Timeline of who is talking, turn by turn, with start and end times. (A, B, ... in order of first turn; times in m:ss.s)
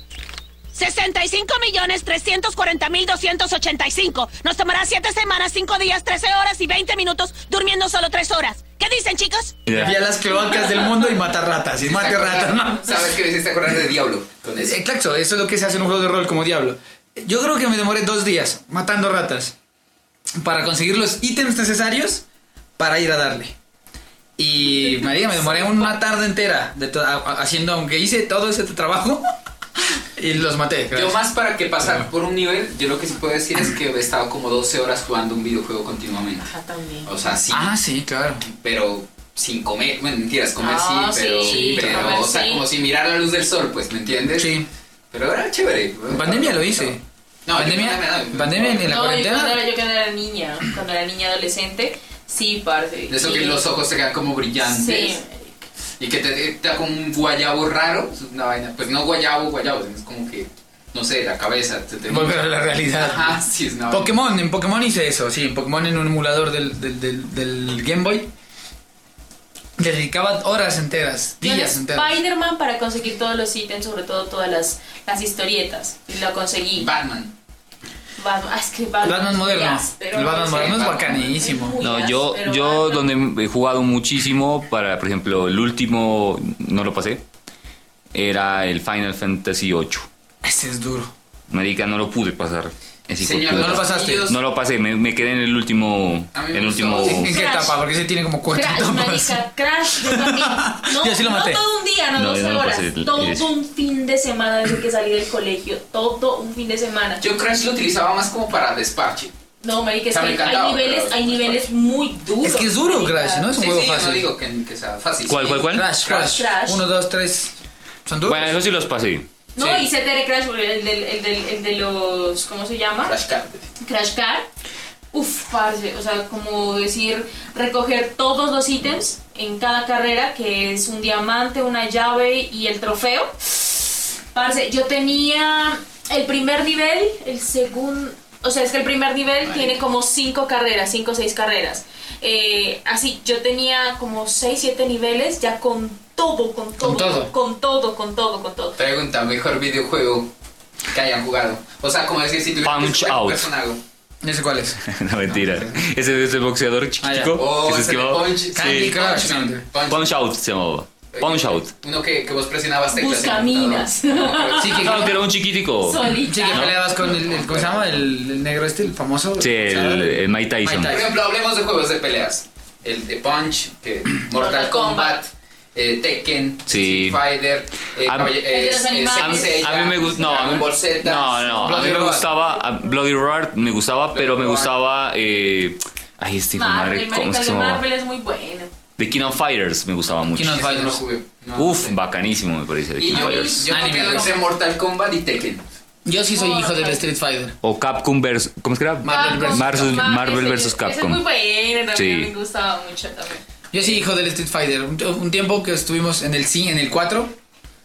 0:00.7-0:09.6 A
0:09.6-0:09.9 B
0:09.7-0:13.0 C
0:09.8-0:10.9 D
0:11.8-0:14.8 E
0:14.6-0:19.5 C
0:20.4-0:22.2 C
0:22.8-0:23.5 C
0:24.4-0:29.2 C
0:24.8-0:25.9 D
0:30.2-0:31.2 C
0:30.9-0:36.5 E
0:31.8-0:32.1 C
0:36.4-0:37.1 D
0:37.0-0:37.7 E
0:37.5-0:38.4 C
0:38.4-0:44.6 E
0:40.6-0:42.6 D
0:41.4-0:42.3 C
0:44.4-0:44.7 C
0:45.1-0:49.0 E
0:46.1-0:49.6 C
0:48.8-0:53.6 D
0:53.1-0:55.2 E
0:54.6-0:55.5 D
0:56.0-1:04.1 E
1:02.1-1:08.3 C
1:09.8-1:12.2 C
1:11.4-1:16.9 D
1:16.8-1:17.3 E
1:18.2-1:23.1 D
1:19.0-1:21.8 C
1:20.4-1:21.5 E
1:21.8-1:27.2 B
1:28.1-1:30.1 B
1:30.4-1:31.1 C
1:31.5-1:37.3 B
1:33.2-1:34.4 E
1:33.5-1:34.3 C
1:36.3-1:37.3 E
1:37.0-1:41.6 C
1:37.2-1:37.8 D
1:38.5-1:47.2 D
1:42.1-1:43.5 B
1:47.2-1:49.3 E
1:49.6-1:53.5 D
1:50.1-1:51.6 E
1:52.4-1:54.3 C
1:53.5-1:56.4 E
1:55.2-1:55.9 B
1:55.7-1:57.5 C
1:56.1-1:56.8 D
1:58.0-1:58.6 C
1:58.2-1:59.3 B
1:59.5-2:03.1 D
1:59.6-1:59.8 C
2:03.0-2:03.7 E
2:03.8-2:04.5 D
2:05.1-2:28.8 D
2:19.4-2:19.8 E
2:26.8-2:27.3 C
2:28.8-2:30.3 E
2:30.9-2:33.8 E
2:32.6-2:33.5 B
2:34.2-2:35.8 C
2:34.9-2:39.0 B
2:37.0-2:37.4 C
2:37.4-2:40.2 E
2:38.5-2:39.6 C
2:39.8-2:41.7 B
2:41.1-2:45.2 E
2:42.9-2:45.0 D
2:44.6-2:45.2 C
2:44.6-2:46.8 B
2:45.8-2:46.7 D
2:46.2-2:51.1 C
2:46.8-2:48.0 E
2:49.4-2:51.0 B
2:50.9-3:02.2 E
2:54.3-2:55.2 D
2:56.7-2:57.2 B
2:58.0-2:58.4 B
2:58.4-3:00.6 D
2:59.1-3:07.8 B
3:01.6-3:02.3 C
3:02.3-3:02.9 D
3:04.1-3:04.7 E
3:06.5-3:08.7 D
3:09.0-3:10.6 B
3:10.3-3:11.0 C
3:10.4-3:12.0 E
3:11.6-3:13.7 B
3:13.0-3:15.6 E
3:13.1-3:14.4 D
3:13.6-3:14.4 C
3:16.0-3:17.6 C
3:16.3-3:17.0 D
3:17.6-3:21.2 B
3:19.0-3:20.0 C
3:19.0-3:23.4 D
3:21.9-3:22.3 B
3:23.7-3:27.4 C